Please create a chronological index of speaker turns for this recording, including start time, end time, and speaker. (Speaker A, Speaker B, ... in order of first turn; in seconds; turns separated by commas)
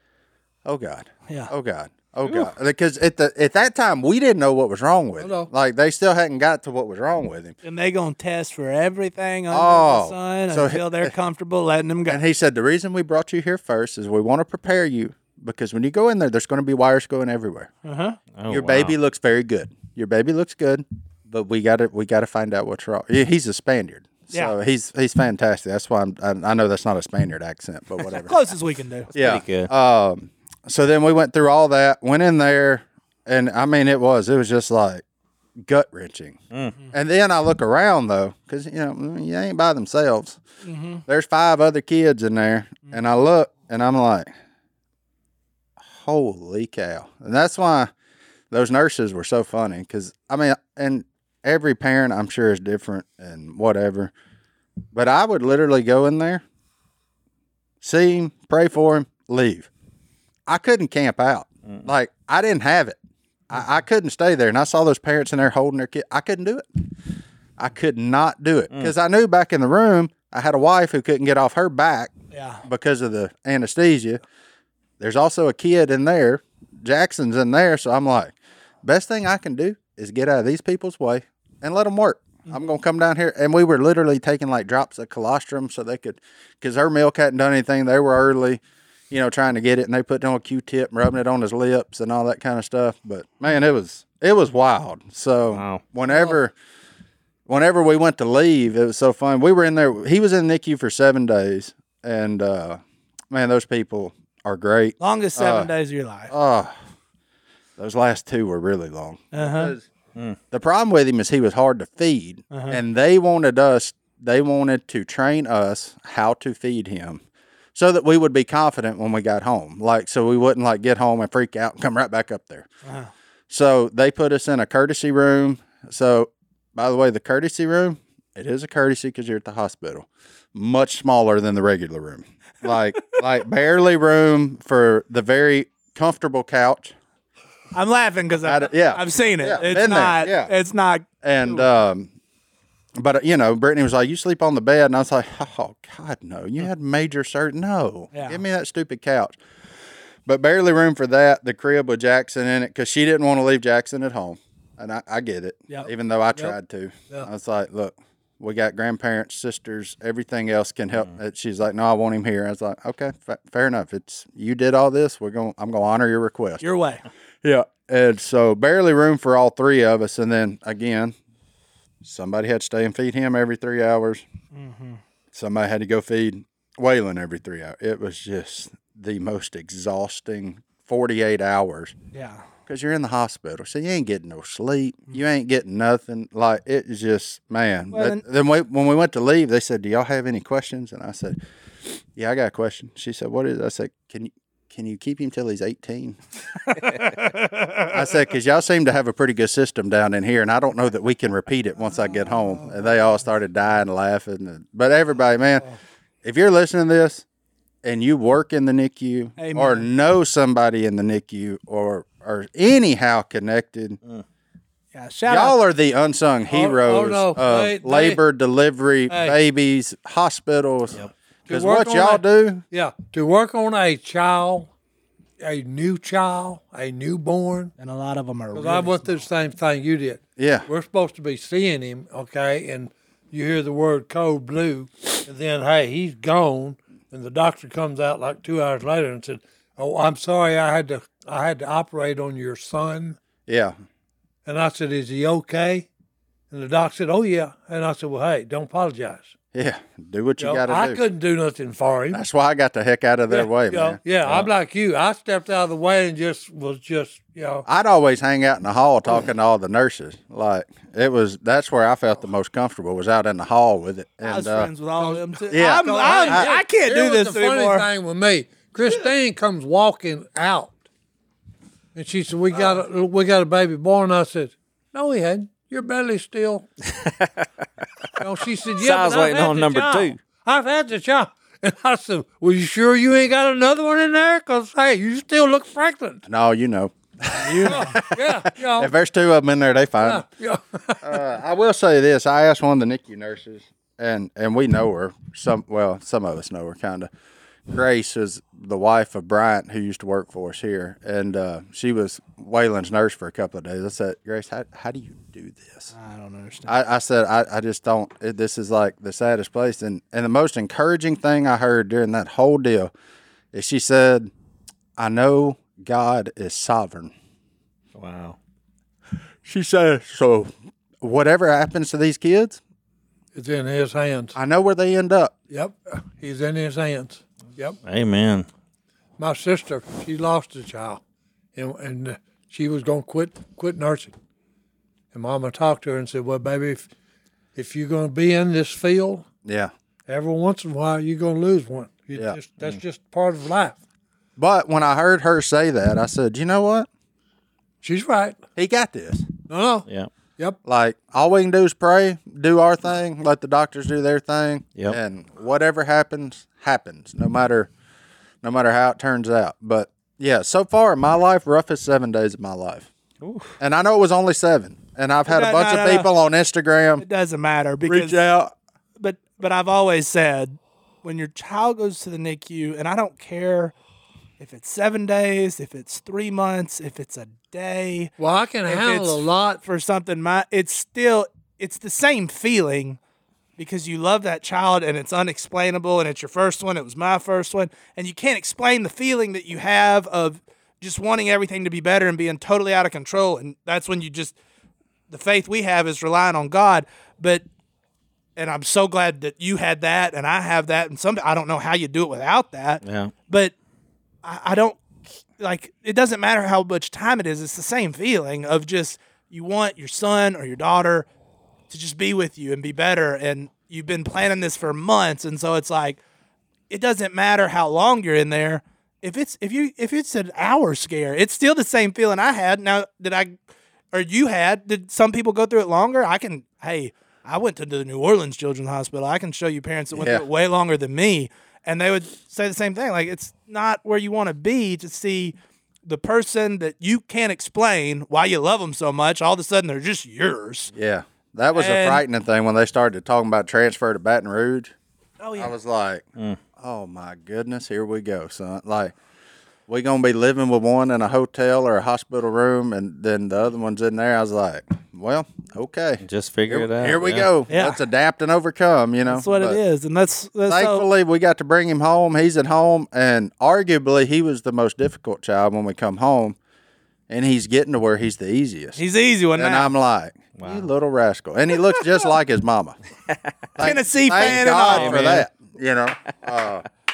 Speaker A: 0.6-7.5, Speaker B: 5.2-5.5, Speaker C: 7.6-12.2, Speaker A: 9.5-11.1, Speaker A: 12.1-17.7, Speaker C: 17.8-18.2, Speaker D: 18.3-18.9, Speaker A: 18.5-28.3, Speaker C: 28.2-29.1, Speaker D: 29.1-29.7, Speaker A: 29.1-35.0, Speaker A: 35.6-36.4, Speaker A: 36.9-40.4, Speaker C: 40.6-41.0, Speaker A: 41.0-44.3, Speaker A: 45.8-47.9, Speaker A: 48.5-54.1, Speaker A: 54.9-56.4, Speaker A: 57.8-59.7, Speaker A: 60.5-63.0, Speaker A: 63.5-66.6, Speaker A: 67.6-72.1, Speaker C: 72.3-72.6, Speaker A: 72.6-74.2, Speaker A: 75.0-96.5, Speaker D: 95.5-95.8, Speaker B: 96.1-96.3, Speaker A: 97.5-102.8, Speaker A: 103.3-105.7, Speaker C: 105.0-106.3, Speaker A: 106.3-106.7, Speaker A: 107.8-109.8, Speaker C: 109.3-109.7, Speaker A: 110.5-117.2, Speaker C: 112.5-112.8, Speaker A: 117.7-122.7, Speaker C: 122.8-123.1, Speaker A: 123.5-136.9, Speaker C: 137.7-141.7, Speaker A: 138.4-140.5, Speaker A: 141.2-142.1, Speaker A: 143.0-149.4, Speaker C: 148.1-148.4, Speaker A: 150.2-166.6, Speaker C: 166.6-167.0, Speaker A: 167.4-171.1, Speaker A: 172.0-174.2, Speaker C: 174.5-175.0, Speaker A: 175.3-181.9, Speaker C: 182.1-182.4, Speaker A: 182.7-196.2, Speaker C: 187.9-188.2, Speaker C: 196.7-197.9, Speaker A: 197.9-205.7, Speaker A: 206.2-207.2, Speaker A: 207.8-214.0, Speaker C: 209.4-209.8, Speaker C: 214.9-215.6, Speaker A: 215.3-222.6, Speaker B: 216.5-218.2, Speaker B: 219.1-219.4, Speaker B: 221.5-224.7, Speaker B: 225.4-227.7, Speaker C: 227.8-229.1, Speaker B: 228.5-243.2, Speaker A: 230.4-230.7, Speaker A: 243.5-243.7, Speaker B: 244.4-245.9, Speaker B: 246.5-249.3, Speaker A: 249.5-251.0, Speaker B: 250.4-252.2, Speaker A: 252.1-254.0, Speaker B: 253.3-257.6, Speaker A: 257.6-264.7, Speaker C: 264.2-267.9, Speaker B: 265.0-270.8, Speaker A: 265.5-266.5, Speaker B: 271.9-276.7, Speaker D: 276.9-277.5, Speaker B: 278.2-286.2, Speaker D: 278.8-280.2, Speaker A: 286.2-290.2, Speaker C: 287.4-287.9, Speaker B: 287.6-288.9, Speaker B: 290.0-291.2, Speaker A: 291.0-297.1, Speaker A: 297.7-305.9, Speaker C: 305.9-306.7, Speaker A: 306.7-312.9, Speaker A: 313.5-314.3, Speaker A: 315.0-317.1, Speaker D: 317.9-318.4, Speaker A: 319.4-322.6, Speaker B: 323.3-324.3, Speaker A: 324.3-325.3, Speaker B: 325.5-327.8, Speaker D: 327.8-328.5, Speaker B: 329.2-331.0, Speaker B: 331.5-334.1, Speaker B: 335.1-336.9, Speaker B: 337.5-339.2, Speaker A: 339.4-339.7, Speaker B: 340.1-343.8, Speaker A: 344.4-346.9, Speaker B: 347.8-348.4, Speaker A: 348.6-349.3, Speaker B: 349.5-349.9, Speaker A: 350.6-357.7, Speaker A: 358.4-362.9, Speaker D: 363.2-363.5, Speaker A: 363.6-367.0, Speaker C: 365.3-366.1, Speaker C: 367.0-368.2, Speaker A: 367.9-368.5, Speaker C: 369.0-373.7, Speaker C: 374.4-378.1, Speaker B: 378.2-379.6, Speaker C: 378.7-383.0, Speaker C: 383.6-394.3, Speaker C: 395.1-397.4, Speaker C: 398.4-403.5, Speaker D: 402.8-403.1, Speaker C: 404.2-404.8, Speaker C: 405.4-411.1, Speaker C: 411.7-416.0, Speaker C: 416.7-423.3, Speaker C: 423.9-435.3, Speaker A: 429.9-430.2, Speaker C: 435.9-440.7, Speaker A: 440.7-444.7, Speaker C: 441.5-442.0, Speaker C: 445.2-445.5, Speaker A: 445.4-446.0, Speaker A: 446.6-448.9, Speaker A: 449.7-459.6, Speaker D: 456.0-457.3, Speaker C: 457.5-457.8, Speaker C: 459.0-460.9, Speaker A: 460.5-466.4, Speaker A: 467.1-468.8, Speaker C: 468.8-469.7, Speaker A: 469.3-472.8, Speaker D: 470.4-470.7, Speaker A: 473.5-476.6, Speaker C: 473.6-475.2, Speaker D: 474.2-475.2